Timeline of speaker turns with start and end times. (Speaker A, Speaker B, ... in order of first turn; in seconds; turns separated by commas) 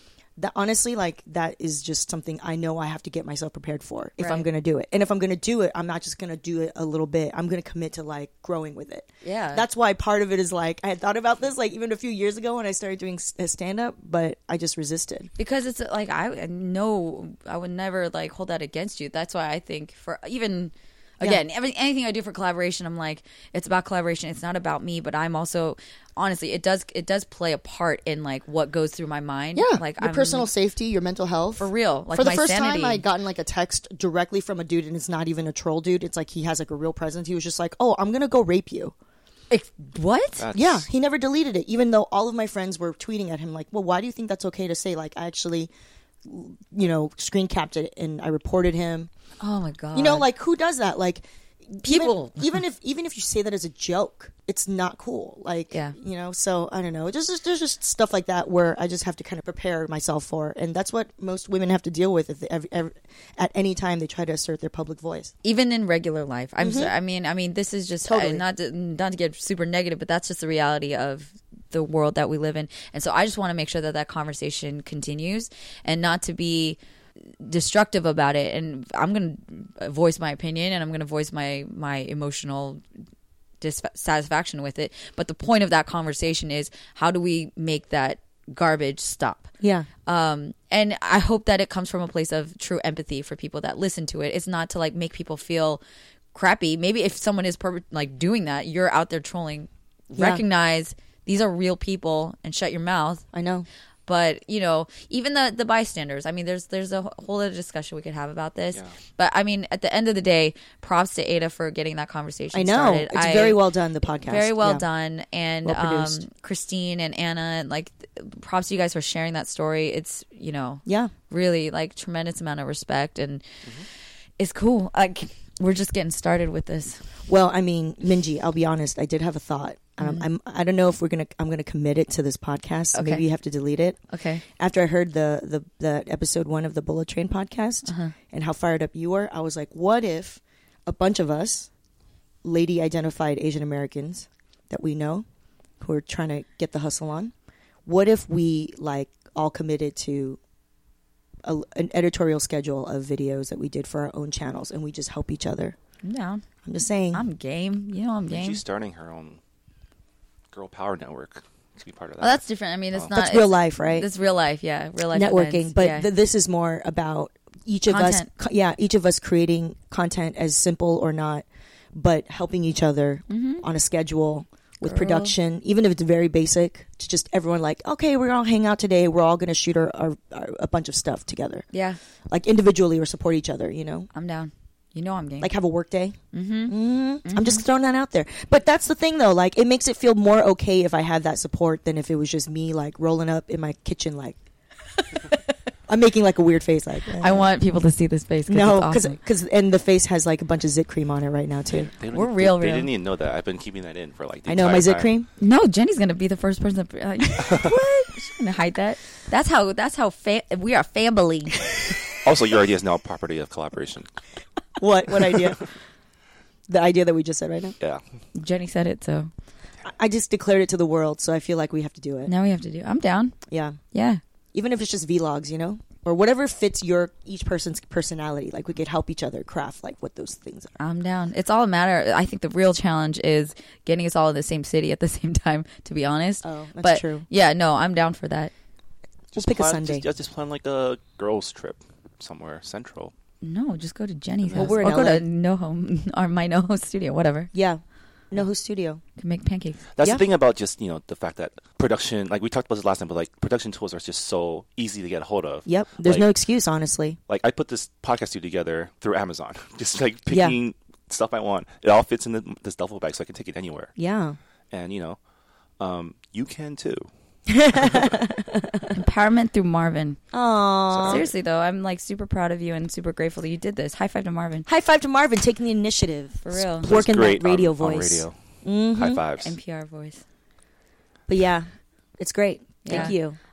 Speaker A: 0.4-15.3, Speaker B: 4.2-4.5, Speaker B: 9.2-9.6, Speaker B: 15.4-30.5, Speaker A: 29.6-38.9, Speaker B: 31.6-33.0, Speaker B: 39.5-40.4, Speaker C: 40.4-40.9, Speaker A: 40.5-45.7, Speaker A: 46.2-49.1, Speaker B: 49.4-50.3, Speaker A: 49.9-65.3, Speaker B: 51.8-52.5, Speaker B: 65.4-76.8, Speaker A: 66.6-66.9, Speaker A: 68.0-68.4, Speaker B: 77.4-82.8, Speaker B: 83.6-89.5, Speaker A: 89.6-89.9, Speaker B: 90.0-95.8, Speaker B: 96.3-103.2, Speaker A: 100.2-100.4, Speaker A: 103.3-103.7, Speaker B: 104.0-113.6, Speaker A: 112.5-114.8, Speaker B: 114.3-123.5, Speaker A: 115.6-116.2, Speaker A: 120.9-121.1, Speaker B: 124.4-127.0, Speaker A: 127.3-141.7, Speaker B: 130.0-130.3, Speaker B: 132.9-133.2, Speaker B: 134.1-134.4, Speaker B: 137.9-138.1, Speaker A: 142.4-145.2, Speaker A: 145.8-147.3, Speaker A: 147.9-150.4, Speaker A: 151.4-155.8, Speaker B: 156.0-156.4, Speaker A: 156.6-157.2, Speaker B: 157.1-158.6, Speaker C: 158.3-159.4, Speaker C: 160.5-162.4, Speaker B: 162.2-166.1, Speaker A: 163.1-164.1, Speaker A: 165.1-181.7, Speaker B: 167.9-168.3, Speaker B: 173.3-173.6, Speaker B: 174.8-175.3, Speaker B: 181.7-182.0, Speaker A: 182.3-184.1, Speaker B: 184.1-185.5, Speaker A: 185.4-194.4, Speaker B: 186.3-187.6, Speaker B: 195.1-195.5, Speaker A: 195.9-197.4, Speaker B: 197.1-199.2, Speaker A: 198.5-201.9, Speaker C: 201.7-205.1, Speaker B: 202.1-202.9, Speaker A: 204.5-205.3, Speaker B: 205.4-212.0, Speaker C: 207.4-207.8, Speaker C: 212.1-214.1, Speaker A: 214.8-215.6, Speaker A: 216.7-217.8, Speaker B: 218.3-219.3, Speaker A: 219.8-222.3, Speaker B: 222.3-223.4, Speaker A: 223.5-223.8, Speaker B: 223.9-224.2, Speaker A: 224.5-230.8, Speaker B: 230.8-238.5, Speaker A: 236.4-237.2, Speaker C: 239.3-243.1, Speaker A: 239.4-240.1, Speaker B: 243.4-247.5, Speaker C: 244.4-244.9, Speaker A: 244.6-245.2, Speaker A: 247.5-249.0, Speaker B: 249.2-249.8, Speaker C: 249.9-256.3, Speaker A: 255.7-257.2, Speaker C: 257.3-263.9, Speaker A: 260.3-260.6, Speaker A: 264.0-264.4, Speaker C: 264.7-265.2, Speaker C: 265.8-267.1, Speaker A: 267.5-268.9, Speaker C: 267.7-268.1, Speaker B: 268.9-270.2, Speaker A: 270.3-271.3, Speaker C: 270.9-271.2, Speaker B: 271.1-274.7, Speaker A: 274.7-279.2, Speaker B: 276.4-276.9, Speaker C: 276.8-278.4, Speaker C: 278.9-279.6, Speaker B: 279.4-280.2, Speaker A: 281.3-283.4, Speaker B: 282.8-283.1